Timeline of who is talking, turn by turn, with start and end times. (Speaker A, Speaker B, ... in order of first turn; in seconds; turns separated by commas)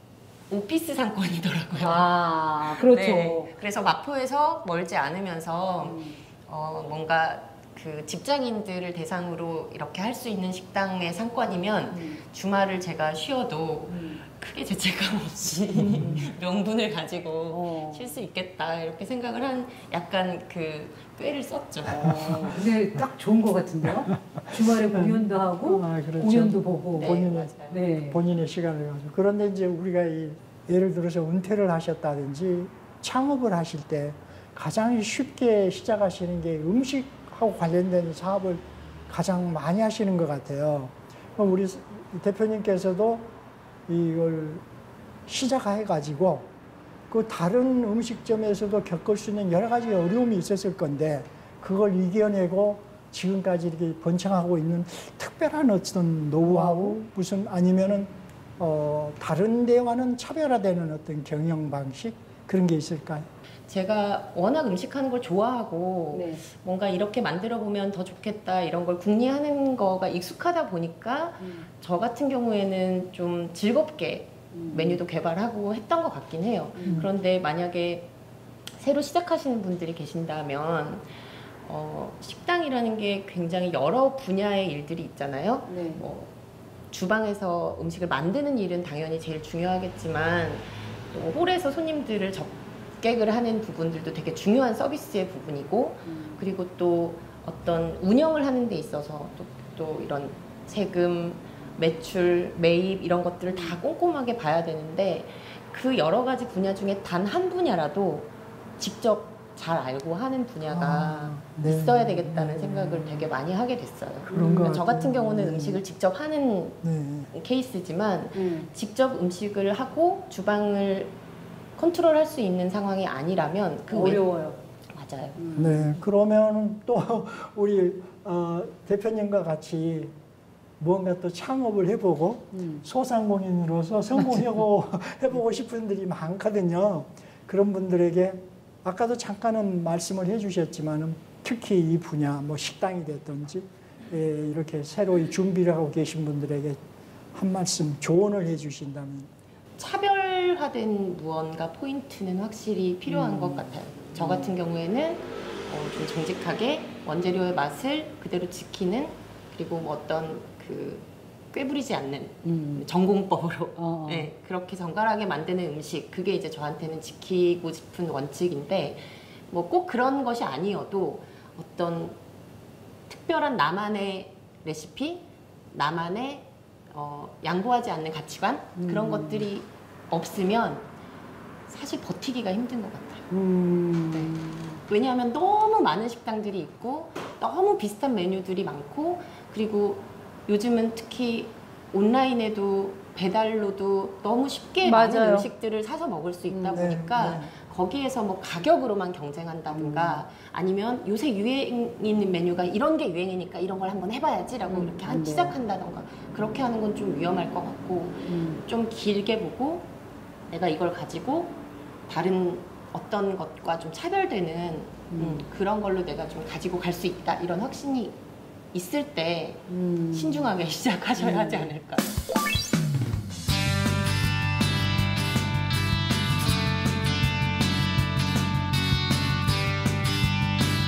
Speaker A: 0.5-2.0, Speaker B: 1.8-3.5, Speaker A: 2.6-22.2, Speaker B: 5.8-6.2, Speaker B: 11.9-12.2, Speaker B: 13.9-14.2, Speaker C: 15.8-16.2, Speaker B: 15.8-16.3, Speaker B: 17.5-18.2, Speaker B: 21.9-28.2, Speaker C: 22.0-22.8, Speaker C: 24.4-27.6, Speaker A: 26.9-27.9, Speaker C: 28.1-43.3, Speaker C: 43.9-44.6, Speaker C: 45.3-46.5, Speaker C: 47.1-63.3, Speaker B: 56.4-57.0, Speaker A: 63.7-78.1, Speaker B: 66.1-66.4, Speaker B: 71.4-71.7, Speaker B: 74.5-75.0, Speaker B: 76.8-77.1, Speaker A: 78.8-81.1, Speaker A: 81.7-86.3, Speaker B: 85.7-86.1, Speaker A: 86.9-116.8, Speaker B: 96.1-96.4, Speaker B: 103.5-103.8, Speaker C: 110.7-113.3, Speaker C: 114.3-115.8, Speaker C: 116.8-117.3, Speaker A: 117.3-121.1, Speaker B: 118.3-118.7, Speaker A: 121.8-124.2, Speaker B: 123.9-124.6, Speaker A: 124.9-125.4, Speaker B: 125.4-126.0, Speaker C: 125.6-130.1, Speaker C: 130.8-146.8, Speaker B: 132.5-132.8, Speaker B: 134.2-134.5, Speaker C: 147.3-149.3, Speaker A: 149.8-172.2, Speaker B: 153.1-154.4, Speaker B: 162.4-162.9, Speaker B: 163.8-164.3, Speaker A: 173.1-180.9, Speaker B: 178.8-179.5, Speaker A: 181.7-183.3, Speaker B: 183.3-184.8, Speaker A: 184.1-184.4, Speaker A: 184.9-209.9, Speaker B: 194.8-195.5, Speaker B: 196.5-196.9, Speaker C: 196.7-197.5, Speaker B: 199.7-200.3, Speaker B: 204.7-205.6, Speaker B: 208.3-208.6, Speaker A: 210.5-218.2, Speaker B: 215.1-215.5, Speaker A: 218.7-222.2, Speaker B: 219.7-220.5, Speaker B: 221.2-221.7